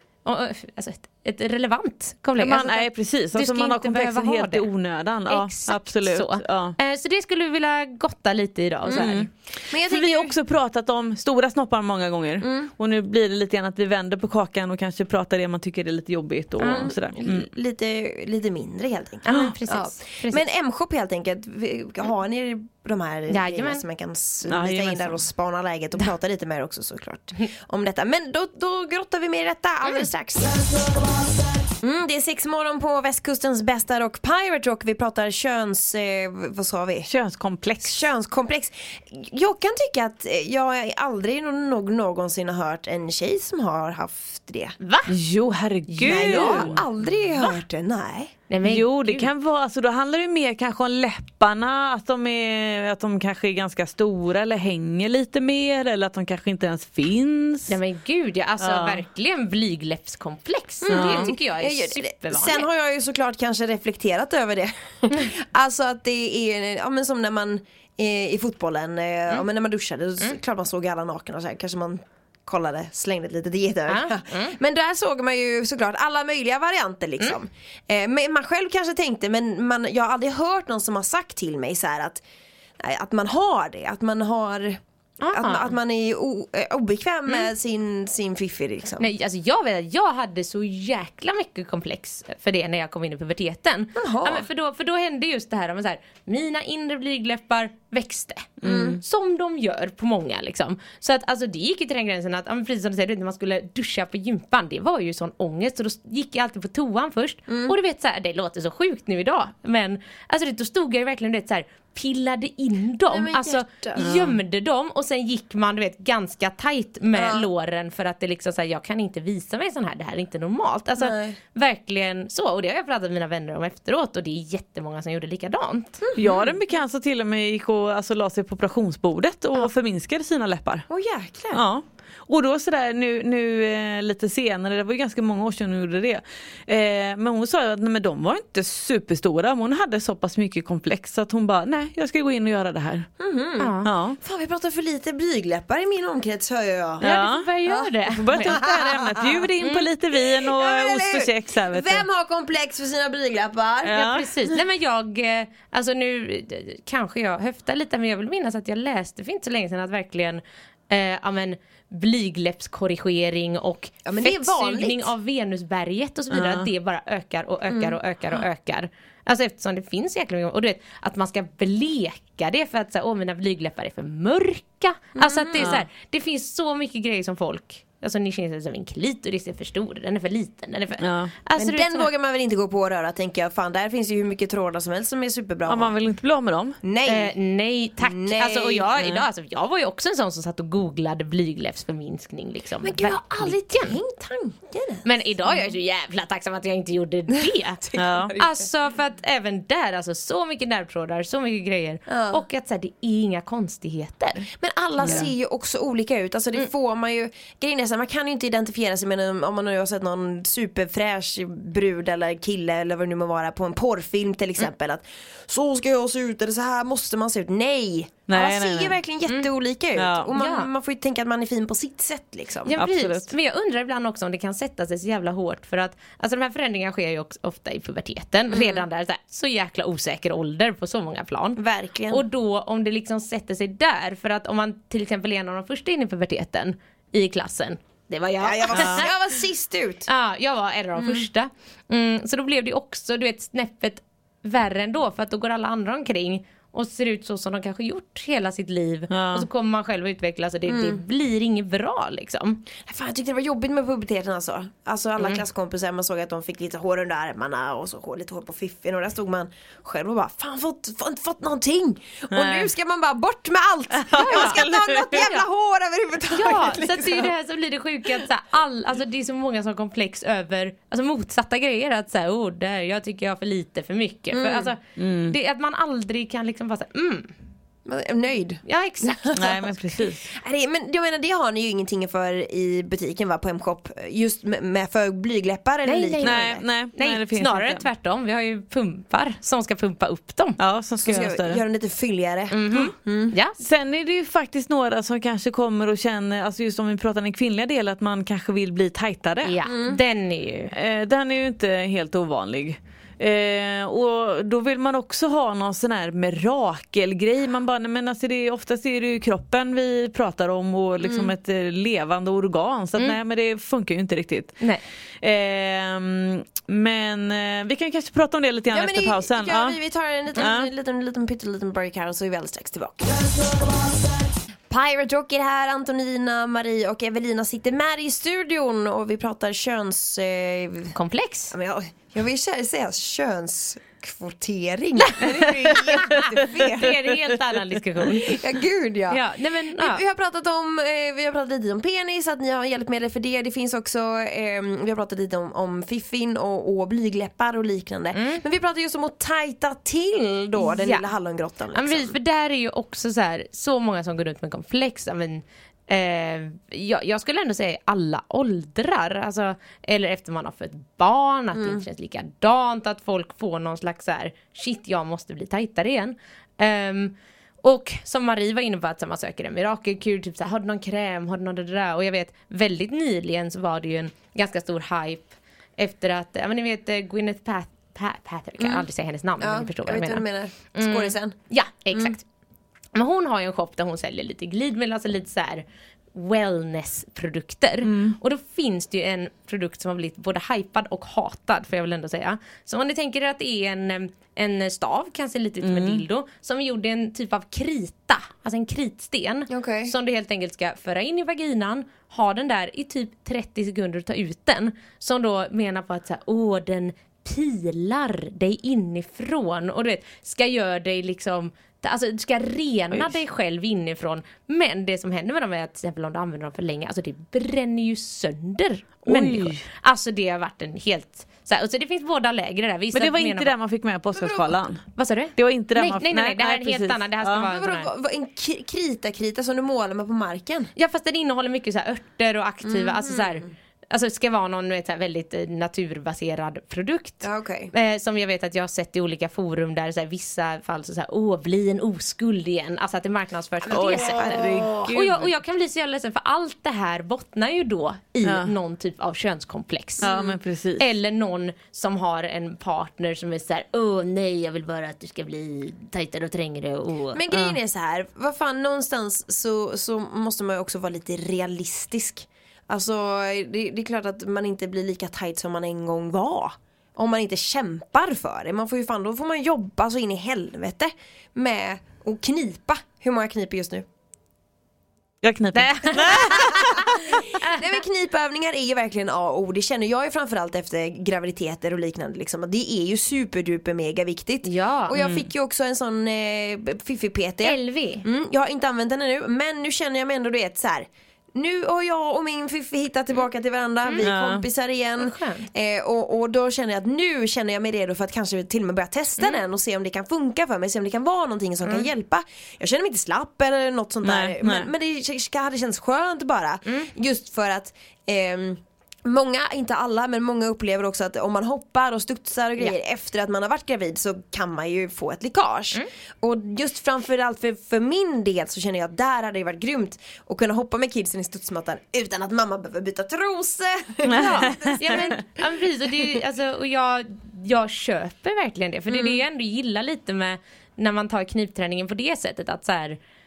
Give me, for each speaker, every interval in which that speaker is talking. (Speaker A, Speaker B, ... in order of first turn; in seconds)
Speaker A: 0.2-4.7, 5.3-9.3, 16.6-16.9, 19.2-20.4, 23.3-23.8, 44.8-45.1, 45.9-46.8, 48.5-49.3, 57.7-62.7, 73.9-74.5, 85.2-85.7, 89.0-126.1, 143.6-143.9, 147.0-148.6, 149.6-149.9, 154.0-182.1, 187.0-194.0, 195.0-197.8, 198.3-204.5, 205.0-205.3, 220.3-220.7, 222.7-239.1, 240.1-252.6, 264.2-265.4, 266.3-277.3, 278.6-279.4, 285.8-290.6, 292.5-293.6, 299.4-300.7, 330.9-331.5, 335.0-338.4, 339.1-340.0, 348.1-348.4, 350.6-351.1, 351.7-382.2, 382.9-423.5, 424.9-427.9, 430.8-450.1, 450.8-457.2, 475.5-476.8, 477.3-477.6, 484.4-484.9, 487.4-488.0, 495.0-495.5, 524.1-533.0
Speaker B: 2.4-6.8, 8.9-17.5, 24.5-25.2, 37.1-38.0, 45.1-46.8, 48.6-57.7, 58.6-59.0, 60.9-61.3, 98.6-99.0, 114.0-114.3, 126.2-130.9, 131.5-143.1, 143.8-144.2, 147.0-147.5, 148.1-152.0, 153.8-154.3, 166.3-166.7, 181.0-181.3, 185.7-186.8, 189.0-189.2, 197.9-198.3, 205.0-205.3, 218.3-219.0, 219.9-220.3, 222.8-223.3, 238.7-239.1, 249.1-249.5, 262.3-262.7, 263.9-265.3, 275.0-275.4, 279.4-280.2, 286.2-287.8, 290.6-291.6, 293.6-299.5, 300.7-314.6, 315.2-319.8, 320.4-320.7, 387.8-388.2, 395.6-396.0, 419.1-419.6, 422.9-427.4, 443.7-445.3, 448.2-448.5, 450.0-450.8, 475.2-476.9, 484.9-485.2, 494.0-494.4, 504.0-504.7, 524.1-525.1
Speaker C: 8.8-10.3, 12.4-12.7, 16.7-30.8, 31.8-37.1, 37.8-44.8, 46.0-48.3, 60.8-82.2, 82.8-84.8, 85.3-89.1, 94.0-94.5, 98.6-99.0, 107.5-107.8, 113.1-114.1, 117.1-117.5, 121.0-121.4, 126.0-126.5, 130.9-131.6, 143.2-147.0, 148.4-149.5, 150.2-154.6, 164.0-165.1, 167.7-168.0, 175.2-175.8, 181.6-185.9, 186.8-187.3, 188.0-188.9, 192.8-195.7, 197.8-198.6, 202.1-202.4, 204.6-222.7, 228.5-228.8, 231.6-232.2, 238.4-240.1, 241.0-241.2, 250.7-251.0, 252.8-267.3, 274.3-274.7, 277.8-286.6, 291.0-293.3, 299.6-300.0, 311.0-311.3, 318.7-323.3, 324.7-330.9, 331.5-337.0, 338.0-339.2, 339.8-352.1, 361.6-361.8, 378.6-378.9, 379.4-381.4, 381.9-382.1, 399.5-399.9, 424.1-424.5, 427.4-430.7, 432.6-433.5, 437.2-437.7, 443.6-444.9, 450.0-450.4, 457.1-473.9, 476.0-525.4, 528.9-529.2